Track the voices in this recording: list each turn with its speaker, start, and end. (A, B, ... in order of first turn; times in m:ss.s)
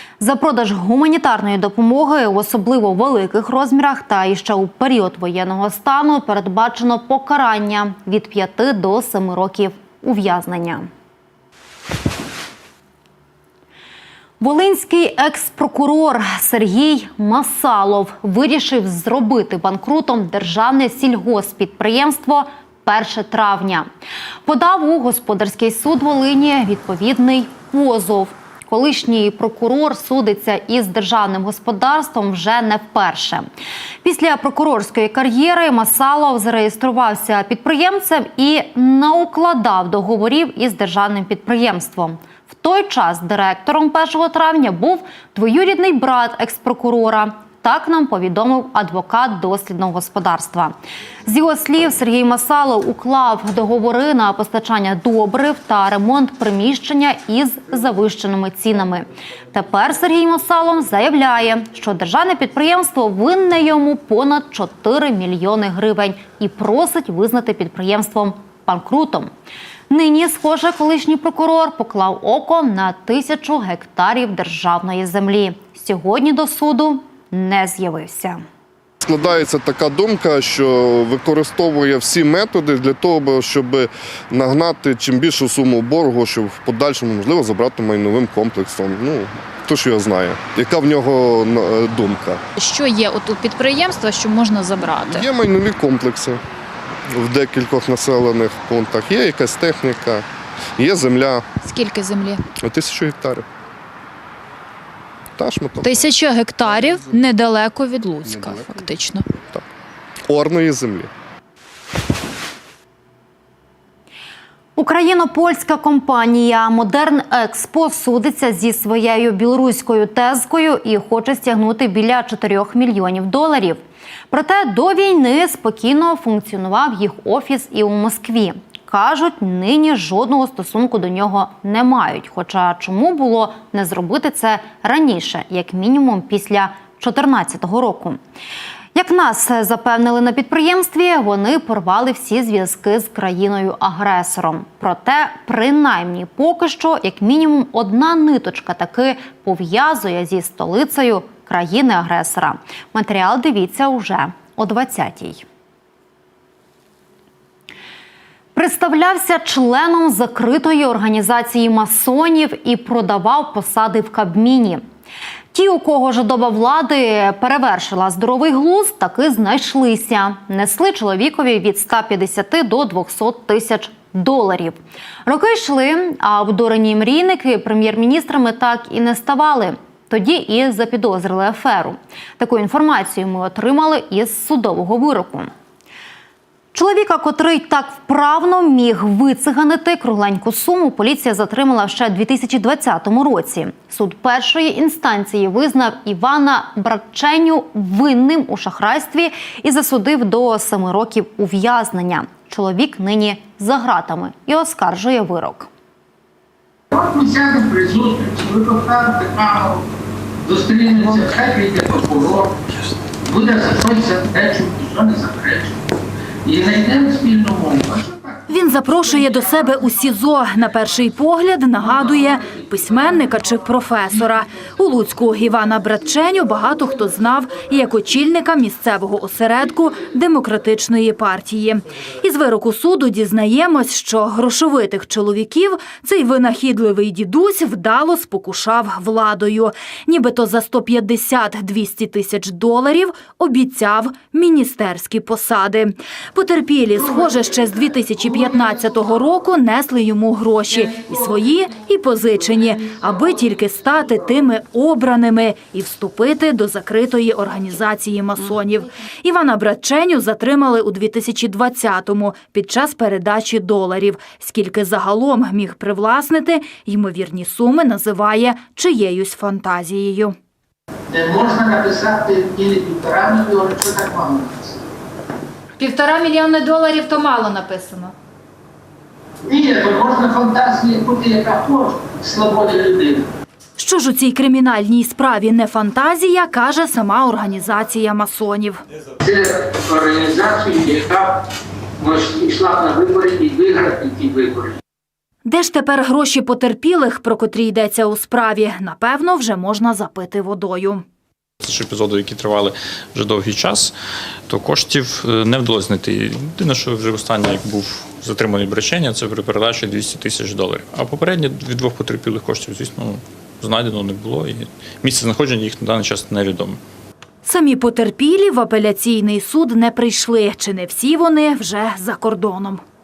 0:00.2-0:10.9 A
0:14.4-0:23.9 A
0:24.4-0:33.4 A
0:34.0-0:50.7 A
0:51.2-1:09.3 A
1:09.9-1:18.4 A
1:19.0-1:32.4 B
1:32.6-1:35.2 C
1:35.0-1:36.4 B
1:37.1-1:40.2 B
1:40.8-1:41.4 B
1:41.6-1:42.4 C
1:42.6-1:43.4 B
1:45.4-1:46.1 B
1:45.8-1:49.2 C
1:48.2-1:48.8 B
1:50.3-1:51.1 B
1:54.8-2:03.8 A
2:04.3-2:18.2 A
2:18.9-2:35.4 A
2:38.5-2:44.8 A
2:45.5-3:05.5 A
3:06.7-3:25.7 A
3:26.9-3:29.8 D
3:30.4-3:32.6 D
3:33.2-3:35.8 D
3:36.4-3:38.4 D
3:38.5-4:30.4 E
4:31.1-4:34.8 D
4:35.8-4:38.1 E
4:39.4-4:43.3 D
4:43.8-4:48.8 E
4:49.2-4:51.5 D
4:52.0-4:54.8 D
4:55.4-5:01.0 E
5:01.6-5:03.9 F
5:04.5-5:16.8 F
5:17.4-5:22.8 E